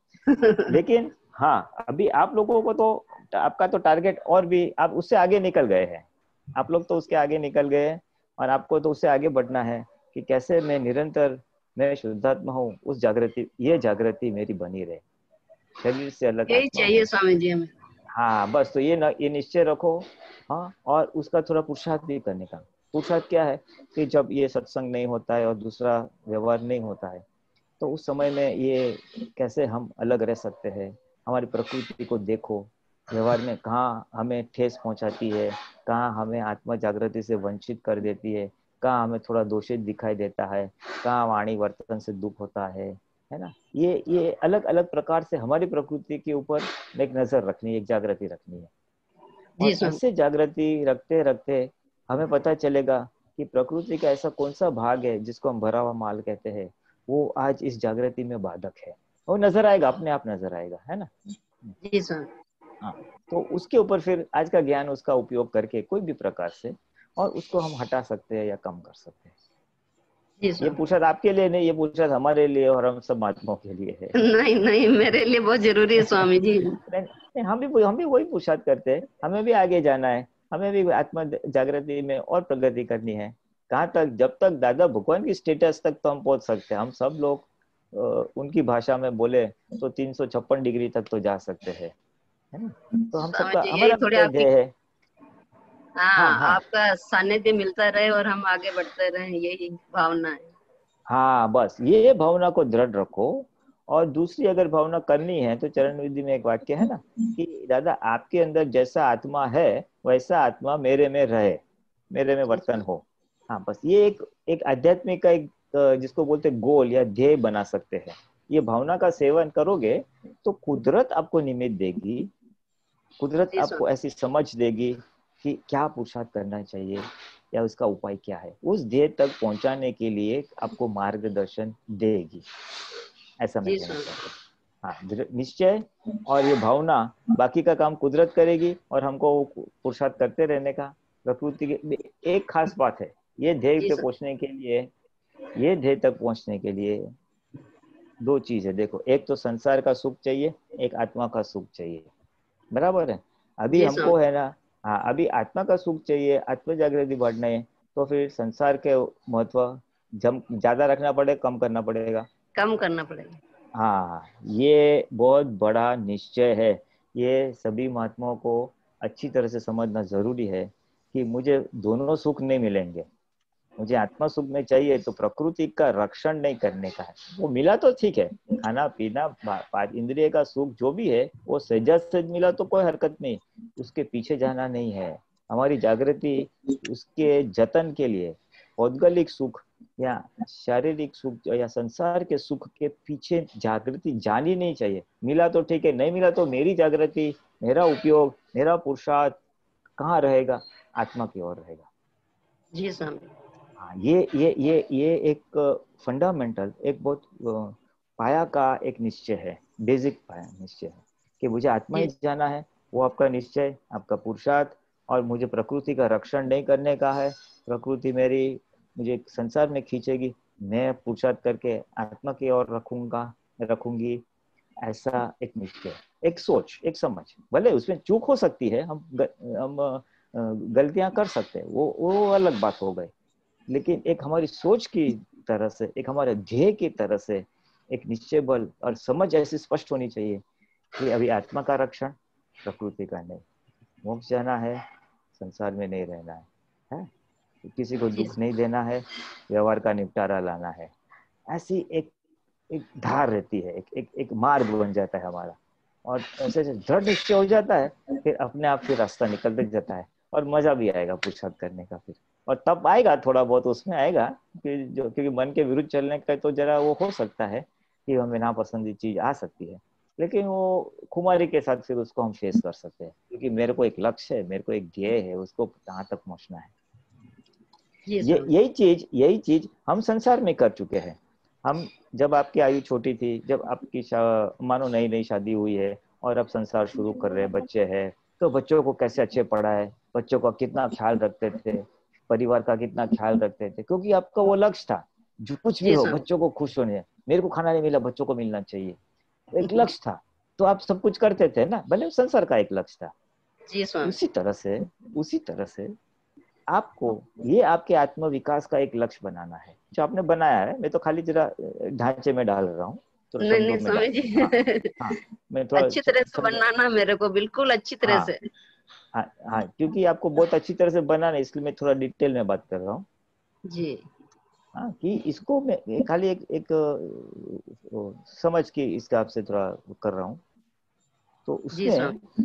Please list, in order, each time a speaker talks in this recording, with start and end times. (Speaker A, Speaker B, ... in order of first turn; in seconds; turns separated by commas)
Speaker A: 0.3-0.7, Speaker B: 0.7-15.0, Speaker B: 15.8-17.1, Speaker A: 16.5-17.7, Speaker B: 18.1-27.2, Speaker B: 27.8-48.7, Speaker A: 49.6-50.0, Speaker B: 49.6-61.1, Speaker A: 61.8-62.3, Speaker B: 62.8-69.3, Speaker A: 70.4-70.8, Speaker B: 70.6-74.1, Speaker A: 74.1-76.8, Speaker B: 76.8-91.9, Speaker B: 92.5-94.7, Speaker A: 93.2-94.5, Speaker A: 96.0-100.5, Speaker B: 96.1-96.6, Speaker B: 101.1-122.3, Speaker B: 123.2-132.4, Speaker A: 123.5-123.8, Speaker B: 133.4-144.9, Speaker A: 133.6-134.1, Speaker A: 143.8-144.1, Speaker B: 145.6-147.1, Speaker B: 148.2-152.1, Speaker B: 152.7-162.3, Speaker A: 153.7-154.2, Speaker A: 162.5-163.4, Speaker B: 163.7-173.1, Speaker B: 173.8-199.4, Speaker B: 200.0-201.9, Speaker A: 202.7-203.3, Speaker B: 203.8-224.2, Speaker B: 224.8-233.1, Speaker B: 233.7-240.4, Speaker B: 240.9-243.4, Speaker B: 244.0-244.8, Speaker B: 245.3-247.1, Speaker B: 247.6-250.9, Speaker B: 251.5-252.1, Speaker B: 252.7-276.7, Speaker A: 278.1-278.5, Speaker B: 278.2-299.0, Speaker A: 295.8-296.2, Speaker B: 299.5-303.1, Speaker A: 303.7-304.1, Speaker B: 304.0-305.9, Speaker B: 306.7-316.6, Speaker A: 313.4-315.1, Speaker A: 315.8-318.4, Speaker B: 318.0-318.3, Speaker B: 319.1-323.0, Speaker A: 323.7-324.0, Speaker B: 324.7-330.4, Speaker B: 331.4-332.2, Speaker A: 331.7-332.1